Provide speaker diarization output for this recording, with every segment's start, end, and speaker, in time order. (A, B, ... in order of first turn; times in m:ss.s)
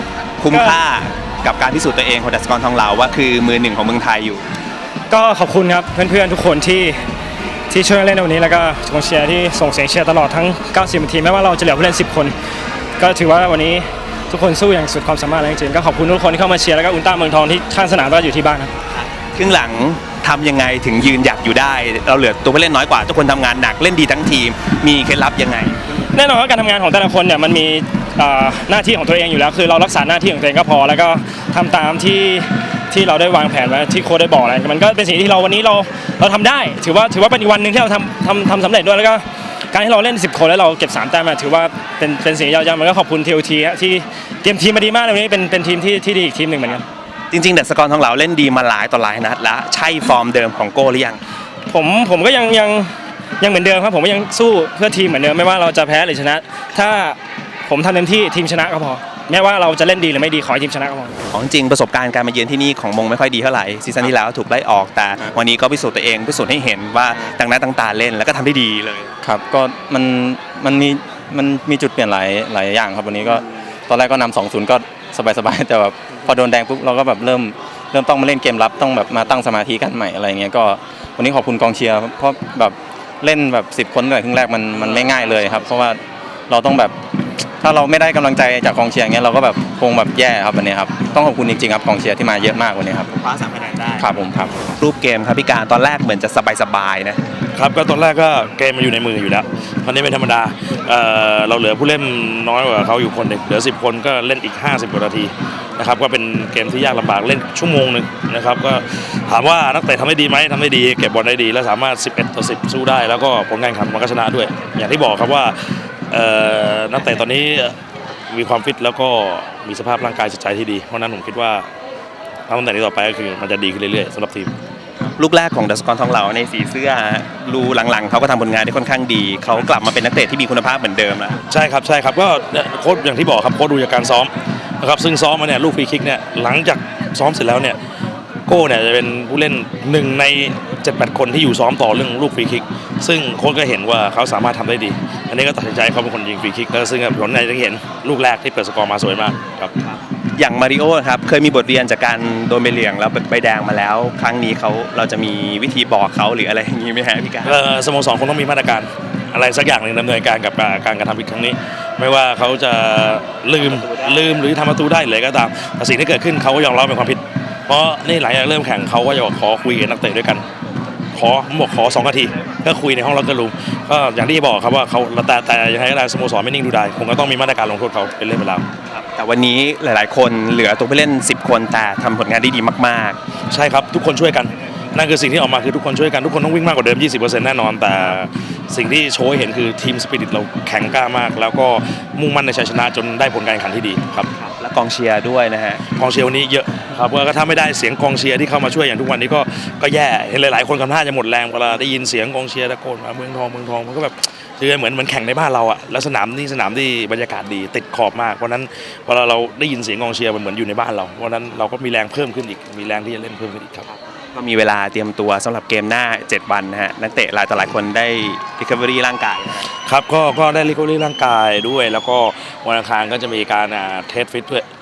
0:00.4-0:04.4 A
0:00.5-0:00.8 B
0:05.1-0:07.0 B
0:07.7-0:12.3 B
0:13.0-0:18.7 B
0:18.9-0:25.9 A
0:26.1-0:46.8 B
0:47.3-0:51.2 A
0:51.7-1:01.1 B
1:01.3-1:09.1 A
1:09.2-1:27.0 C
1:27.6-1:33.1 C
1:33.1-1:34.1 A
1:34.0-1:34.7 C
1:34.8-1:37.2 A
1:37.6-1:55.6 D
1:56.1-1:57.8 D
1:58.3-2:01.7 D
2:02.5-2:04.5 D
2:05.2-2:11.4 A
2:11.5-2:17.8 D
2:18.5-2:29.7 D
2:30.4-2:37.6 A
2:37.4-2:50.4 D
2:43.6-2:44.2 A
2:51.1-2:58.7 D
2:58.9-3:03.2 A
3:03.5-3:14.3 D
3:14.4-3:15.8 A
3:15.9-3:33.9 D
3:34.3-3:39.7 A
3:39.8-3:44.7 D